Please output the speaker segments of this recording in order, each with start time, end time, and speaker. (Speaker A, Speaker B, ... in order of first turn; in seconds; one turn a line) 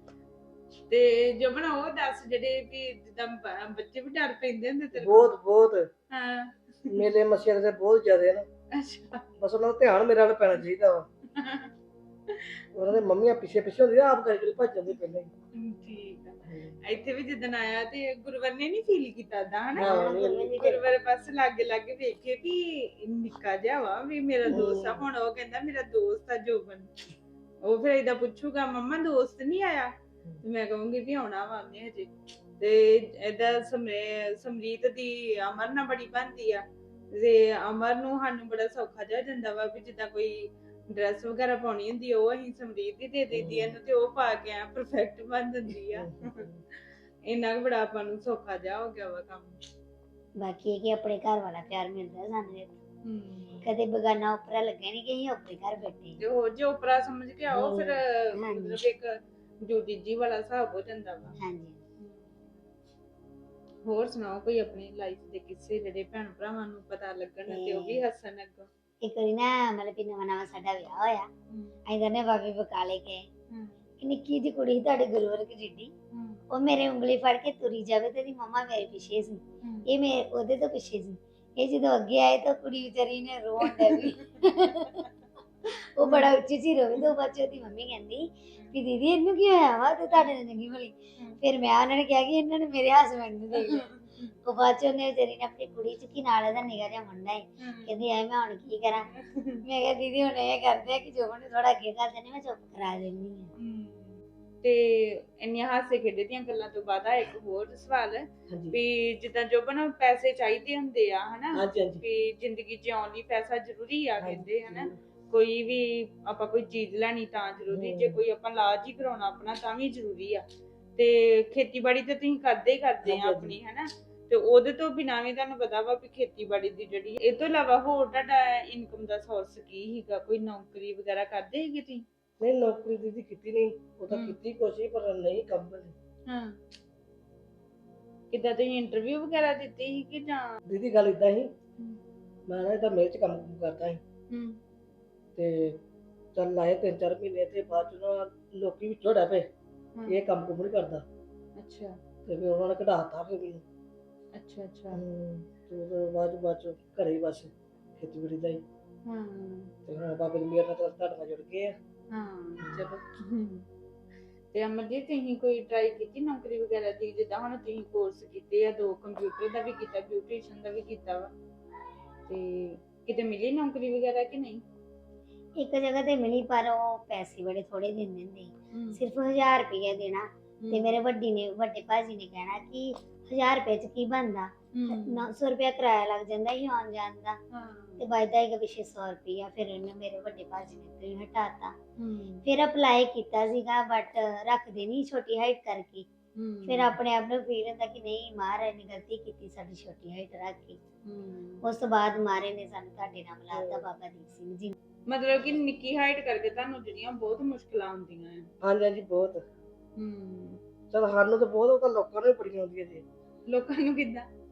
Speaker A: 0.9-5.4
Speaker B: 5.0-5.9
Speaker A: 6.1-7.0
Speaker B: 6.9-8.5
Speaker A: 8.7-9.2
Speaker B: 9.4-11.1
Speaker A: 11.3-11.7
Speaker B: 12.7-15.3
Speaker A: 15.5-26.9
Speaker B: 16.4-16.8
Speaker B: 19.8-20.6
Speaker C: 19.8-20.8
Speaker B: 24.5-25.0
Speaker A: 27.6-29.9
Speaker A: 30.4-46.5
Speaker B: 43.3-43.8
Speaker B: 45.9-46.6
Speaker A: 47.3-49.6
Speaker C: 50.4-52.8
Speaker A: 53.0-53.6
Speaker C: 53.6-56.2
Speaker A: 56.2-61.4
Speaker C: 57.6-58.8
Speaker C: 61.4-61.8
Speaker A: 62.0-62.3
Speaker A: 63.8-68.7
Speaker C: 67.5-68.0
Speaker C: 69.0-71.3
Speaker A: 71.5-71.8
Speaker C: 71.9-73.3
Speaker A: 73.5-73.8
Speaker C: 74.0-75.9
Speaker A: 76.1-76.4
Speaker C: 76.5-85.0
Speaker A: 79.6-79.9
Speaker A: 83.6-84.3
Speaker C: 85.7-93.9
Speaker A: 86.0-86.3
Speaker A: 93.5-94.4
Speaker C: 94.4-99.1
Speaker A: 97.6-97.9
Speaker A: 99.1-99.6
Speaker C: 99.6-103.5
Speaker A: 103.6-120.4
Speaker B: 108.5-108.8
Speaker B: 111.5-112.0
Speaker B: 114.2-115.0
Speaker B: 117.7-118.2
Speaker A: 121.0-132.0
Speaker B: 123.0-123.6
Speaker B: 132.4-135.9
Speaker A: 134.1-134.4
Speaker A: 136.3-136.6
Speaker A: 138.3-140.6
Speaker B: 140.7-141.5
Speaker B: 142.5-144.0
Speaker A: 144.3-144.6
Speaker B: 145.3-145.8
Speaker B: 146.3-149.5
Speaker A: 149.9-150.3
Speaker B: 150.1-151.0
Speaker A: 151.6-152.0
Speaker B: 152.2-153.6
Speaker A: 154.3-155.0
Speaker B: 154.9-158.6
Speaker A: 159.1-159.7
Speaker B: 159.8-161.7
Speaker A: 162.1-163.7
Speaker B: 162.6-162.8
Speaker A: 164.5-171.3
Speaker A: 172.3-174.6
Speaker C: 175.6-187.4
Speaker A: 178.7-179.0
Speaker A: 180.6-181.0
Speaker A: 184.7-185.3
Speaker A: 187.5-188.0
Speaker C: 188.0-191.7
Speaker A: 192.0-192.4
Speaker C: 192.4-196.1
Speaker A: 196.3-197.0
Speaker C: 196.7-200.8
Speaker A: 201.1-201.6
Speaker C: 201.6-204.7
Speaker B: 203.5-203.8
Speaker A: 205.1-208.5
Speaker B: 208.6-209.4
Speaker A: 209.9-210.6
Speaker B: 210.9-213.0
Speaker A: 213.5-214.3